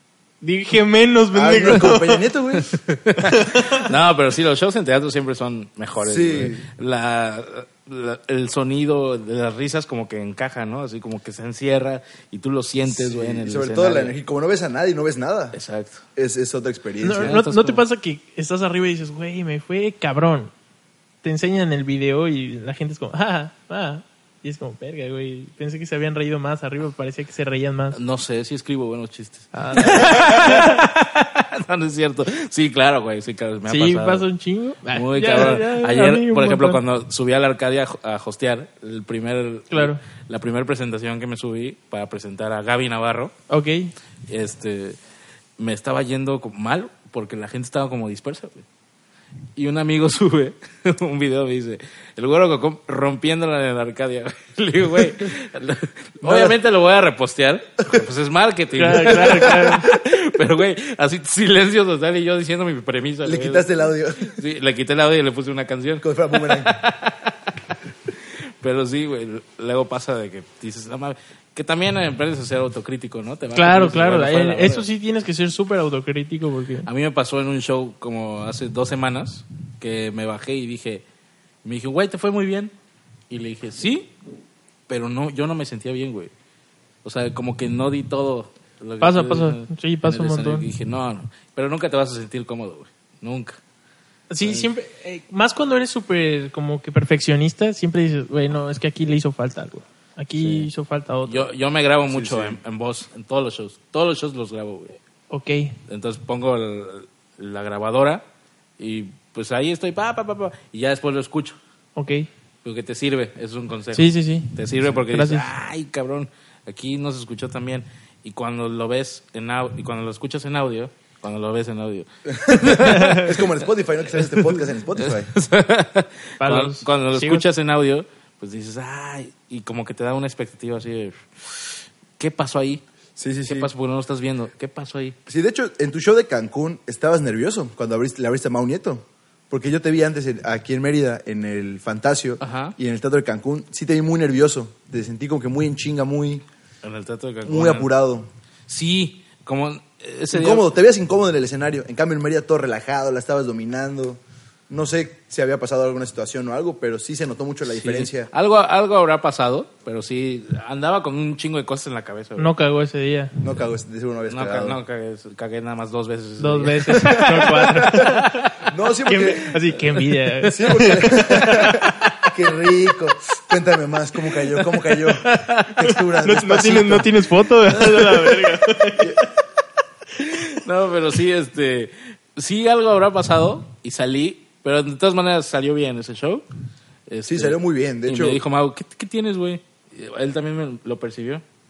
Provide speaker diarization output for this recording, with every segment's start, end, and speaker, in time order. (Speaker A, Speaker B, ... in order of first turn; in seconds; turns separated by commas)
Speaker A: 0.4-2.2, Speaker B: 1.3-2.7, Speaker C: 2.6-14.1, Speaker A: 3.2-3.9, Speaker B: 6.0-6.7, Speaker B: 12.9-15.6, Speaker C: 15.5-16.0, Speaker B: 16.2-17.4, Speaker A: 17.0-20.5, Speaker C: 17.2-17.8, Speaker A: 21.2-28.0, Speaker C: 27.9-34.3, Speaker A: 29.5-30.8, Speaker A: 33.7-36.8, Speaker C: 34.9-43.3, Speaker A: 39.7-40.0, Speaker A: 43.5-43.9, Speaker C: 44.3-45.0, Speaker C: 45.6-48.6, Speaker C: 49.6-63.7, Speaker B: 56.2-56.6, Speaker A: 58.8-59.9, Speaker B: 59.1-59.7, Speaker B: 63.2-64.4, Speaker C: 64.3-67.4, Speaker B: 66.0-66.7, Speaker C: 68.6-74.9, Speaker A: 73.5-76.9, Speaker C: 76.9-81.0, Speaker C: 81.6-82.7, Speaker C: 83.3-84.1, Speaker C: 84.9-86.3, Speaker C: 87.0-93.6, Speaker A: 89.0-90.7, Speaker A: 94.3-101.5, Speaker C: 94.4-94.7, Speaker C: 100.4-100.7, Speaker C: 101.3-105.0, Speaker B: 102.1-102.6, Speaker A: 105.3-105.8, Speaker C: 105.9-108.2, Speaker C: 108.8-111.6, Speaker A: 112.0-112.3, Speaker C: 112.6-123.5, Speaker A: 113.9-115.5, Speaker B: 122.3-125.3, Speaker A: 122.8-123.3, Speaker C: 125.0-132.8, Speaker A: 126.4-127.5, Speaker B: 133.2-133.7, Speaker C: 133.5-135.2, Speaker B: 135.3-146.4, Speaker C: 142.4-142.8, Speaker C: 146.8-147.9, Speaker B: 147.4-148.3, Speaker C: 148.7-150.7, Speaker B: 150.3-158.3, Speaker C: 157.7-162.5, Speaker A: 162.4-163.4, Speaker B: 163.4-164.8, Speaker C: 164.3-168.6, Speaker A: 166.4-168.4, Speaker B: 167.1-169.6, Speaker A: 169.1-171.8, Speaker B: 170.5-177.1, Speaker C: 174.9-176.0, Speaker A: 176.2-179.2, Speaker C: 177.7-178.6, Speaker C: 180.2-186.4, Speaker C: 187.1-191.4, Speaker B: 187.3-188.4